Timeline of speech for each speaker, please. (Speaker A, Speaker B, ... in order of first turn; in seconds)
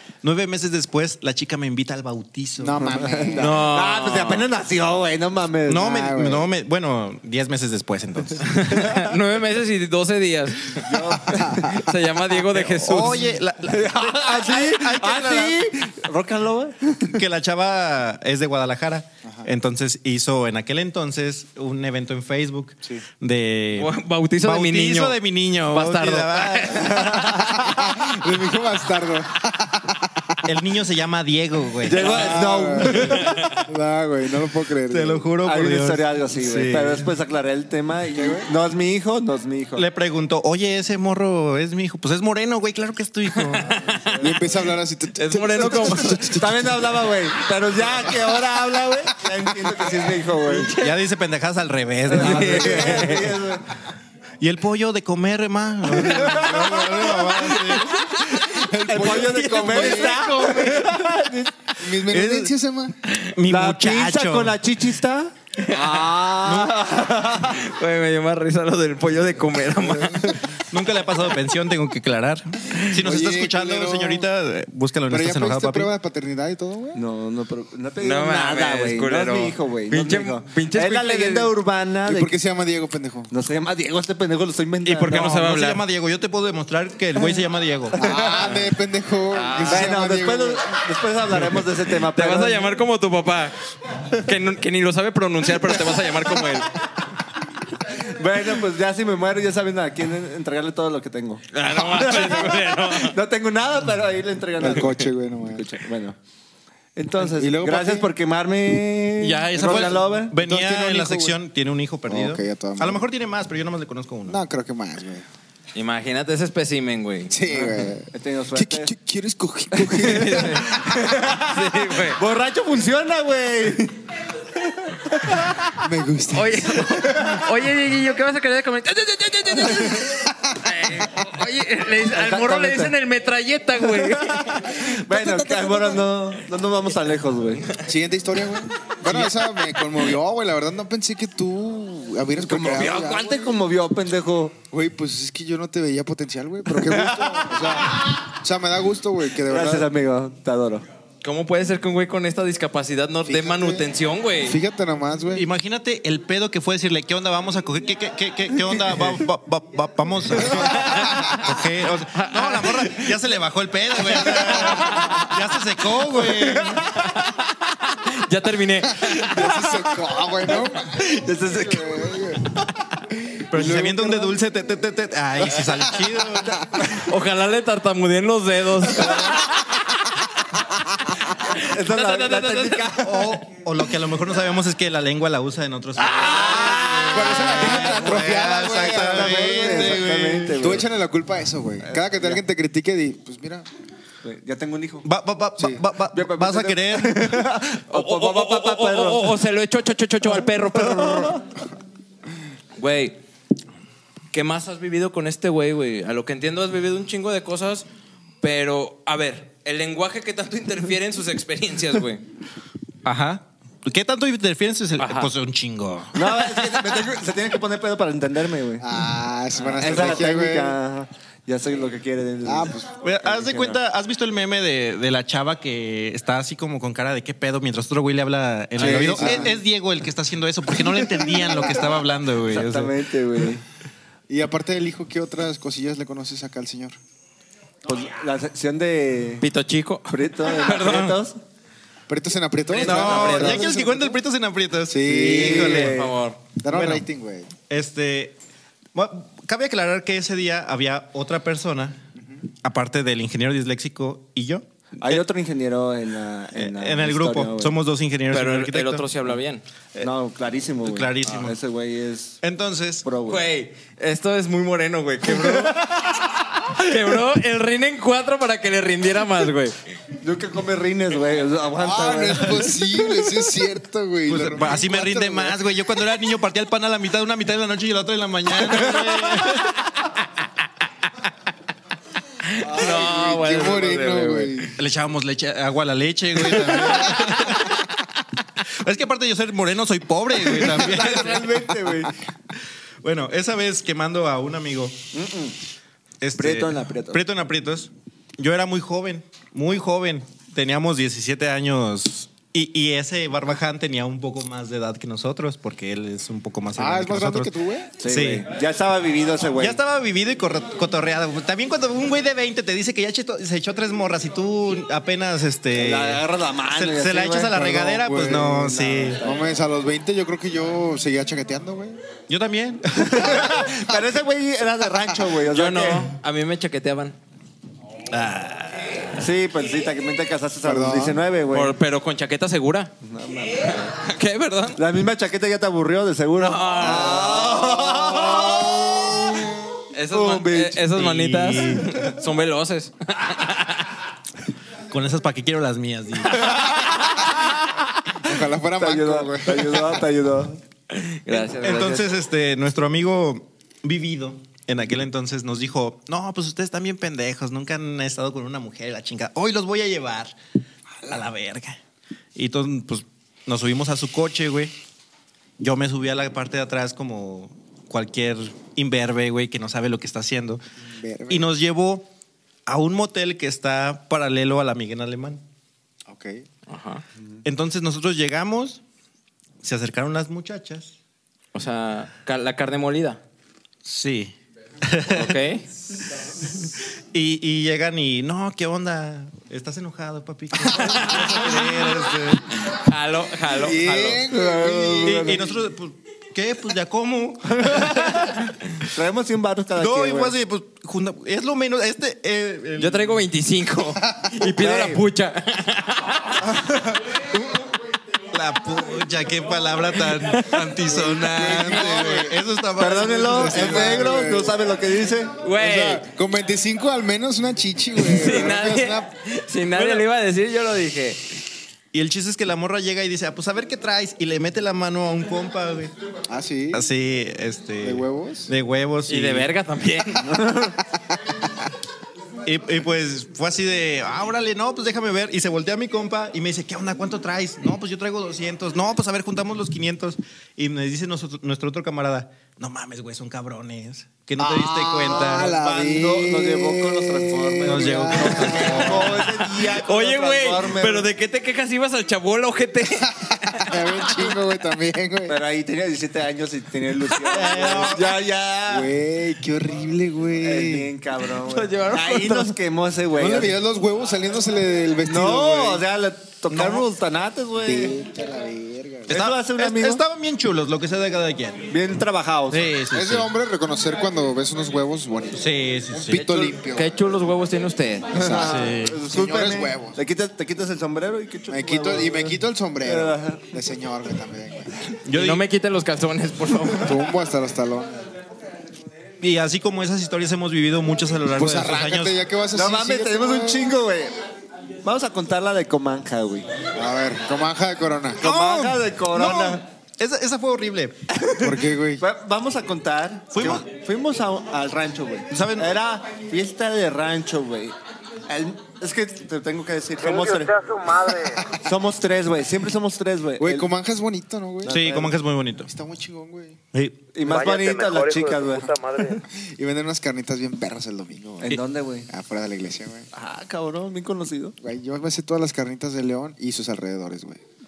Speaker A: 0.2-3.0, 5.7-8.9, 12.8-15.6, 17.0-27.4, 30.4-32.4, 34.9-37.1, 39.8-43.7, 50.7-53.4, 54.4-58.0, 59.0-59.3, 62.1-62.4, 63.4-64.6, 66.4-66.8, 70.5-75.9, 84.8-88.1, 109.2-114.4, 155.3-166.9, 173.5-176.6, 183.0-190.8, 195.0-197.5, 213.0-216.2, 223.0-232.9, 242.8-246.1, 246.7-247.1, 247.7-248.3, 248.9-252.0, 252.6-255.2, 256.5-259.1, 260.8-261.6, 262.4-263.1, 274.3-279.7, 284.8-287.8, 288.8-291.5, 293.0-295.1, 296.2-307.5, 308.0-308.5, 309.6-319.2, 322.3-323.6, 328.1-329.0, 340.9-341.9, 344.9-346.5, 351.6-360.3, 361.1-361.8, 362.3-364.7, 365.6-370.6, 371.3-372.1, 372.7-375.4, 377.4-378.8, 379.6-380.9, 383.8-385.4, 386.6-392.5, 395.0-398.5, 399.8-403.1, 408.3-414.2, 419.7-420.0, 421.9-425.9, 426.7-429.5, 432.4-445.6, 447.6-449.2, 457.3-458.2, 466.5-466.8, 469.1-471.7, 472.5-473.3, 475.3-476.3, 478.3-479.0, 485.1-485.4, 489.2-492.2, 498.2-501.0, 503.3-503.7, 505.3-505.7, 514.7-515.7, 516.7-517.0
Speaker B: 2.6-3.7, 5.8-6.5, 11.4-11.7, 27.6-30.4, 31.9-35.3, 38.1-38.5, 44.2-47.1, 56.1-60.6, 61.8-63.0, 72.9-74.2, 75.1-77.0, 82.0-83.3, 88.0-90.8, 104.6-105.7, 107.2-108.1, 110.3-111.4, 112.1-113.0, 114.3-115.2, 117.3-120.9, 125.8-127.3, 129.6-131.2, 134.7-136.1, 137.8-143.5, 144.7-149.9, 153.2-153.8, 154.4-155.4, 160.8-161.6, 164.2-165.1, 169.0-172.5, 173.1-174.4, 175.6-176.7, 186.0-193.7, 218.8-220.8, 222.4-222.9, 228.8-229.5, 231.4-231.8, 234.3-237.0, 242.1-244.2, 244.9-246.0, 246.6-247.5, 271.8-275.6, 282.6-284.8, 306.7-308.0, 317.6-322.0, 323.3-324.1, 330.6-331.2, 348.2-350.0, 370.9-371.4, 376.1-376.4, 390.9-391.2, 393.5-395.5, 410.9-412.4, 413.2-414.6, 415.6-419.1, 426.3-426.8, 427.8-428.5, 444.4-449.1, 453.5-455.4, 458.6-460.9, 463.1-465.8, 467.6-469.2, 472.9-477.0, 478.1-480.0, 481.5-484.7, 486.8-488.0, 491.3-493.7, 496.7-498.2, 501.4-502.0, 513.4-515.0, 515.6-516.6, 519.3-523.1, 524.6-527.4
Speaker C: 3.0-5.9, 10.7-11.8, 13.6-17.2, 26.9-27.3, 31.8-33.5, 35.4-39.8, 44.0-44.4, 45.6-50.7, 52.1-53.8, 56.0-56.9, 58.8-62.5, 63.5-67.7, 76.9-82.3, 83.3-85.3, 88.0-88.6, 89.6-92.8, 97.9-106.2, 107.0-110.3, 117.6-118.9, 119.9-124.0, 124.5-125.7, 132.0-132.9, 133.9-137.7, 142.4-144.6, 146.7-147.8, 149.4-150.8, 166.1-167.0, 170.9-172.4, 176.8-177.1, 181.6-183.3, 186.2-190.9, 191.8-192.4, 194.2-195.1, 196.1-199.4, 200.7-201.4, 216.1-218.8, 219.8-223.8, 228.8-229.5, 232.4-233.6, 237.8-239.4, 240.1-241.4, 242.9-243.6, 245.2-246.2, 255.0-257.7, 260.0-262.4, 263.0-263.4, 265.3-265.8, 270.2-272.7, 290.5-292.1, 295.1-295.6, 296.4-297.2, 308.0-309.8, 315.7-317.7, 318.7-319.4, 323.0-326.1, 329.2-331.7, 333.0-333.9, 334.8-339.5, 340.1-340.8, 348.8-350.6, 394.2-395.5, 398.9-400.3, 404.5-405.0, 406.4-407.0, 412.8-415.4, 430.1-430.8, 445.1-451.1, 455.3-458.9, 460.4-463.6, 465.1-468.0, 469.1-470.0, 471.7-472.7, 478.1-483.5, 492.5-494.1, 494.8-496.5, 498.2-499.6, 501.1-507.8, 508.3-510.5, 511.6-513.7, 514.6-515.1, 517.1-518.8, 521.4-522.1, 523.1-524.5
Speaker D: 3.4-4.5, 8.4-13.3, 23.8-25.2, 25.7-27.4, 43.3-44.4, 45.2-46.3, 50.5-51.0, 52.1-53.3, 59.5-61.1, 65.6-66.6, 67.3-70.6, 78.0-81.5, 85.0-85.8, 89.3-89.9, 92.0-96.7, 101.5-103.2, 115.7-117.3, 119.9-120.7, 121.3-122.2, 126.3-134.8, 151.2-154.6, 160.6-161.4, 162.1-163.1, 167.0-169.6, 176.9-179.6, 181.4-183.0, 186.6-186.9, 197.9-201.4, 202.8-203.2, 204.3-207.8, 208.4-212.2, 215.0-215.3, 216.2-217.0, 239.4-241.2, 242.7-243.7, 245.8-246.4, 258.3-259.6, 263.2-269.8, 282.4-284.7, 325.5-327.1, 331.5-332.9, 333.6-334.8, 336.4-338.3, 339.9-343.9, 350.9-352.1, 376.7-377.0, 381.5-383.2, 385.1-385.6, 390.7-391.8, 392.5-394.2, 402.8-406.4, 410.1-410.6, 415.4-416.0, 417.9-421.4, 429.1-430.4, 449.4-454.4, 457.1-457.8, 461.3-462.5, 476.1-478.2, 485.1-487.0
Speaker E: 510.0-511.5, 517.2-519.2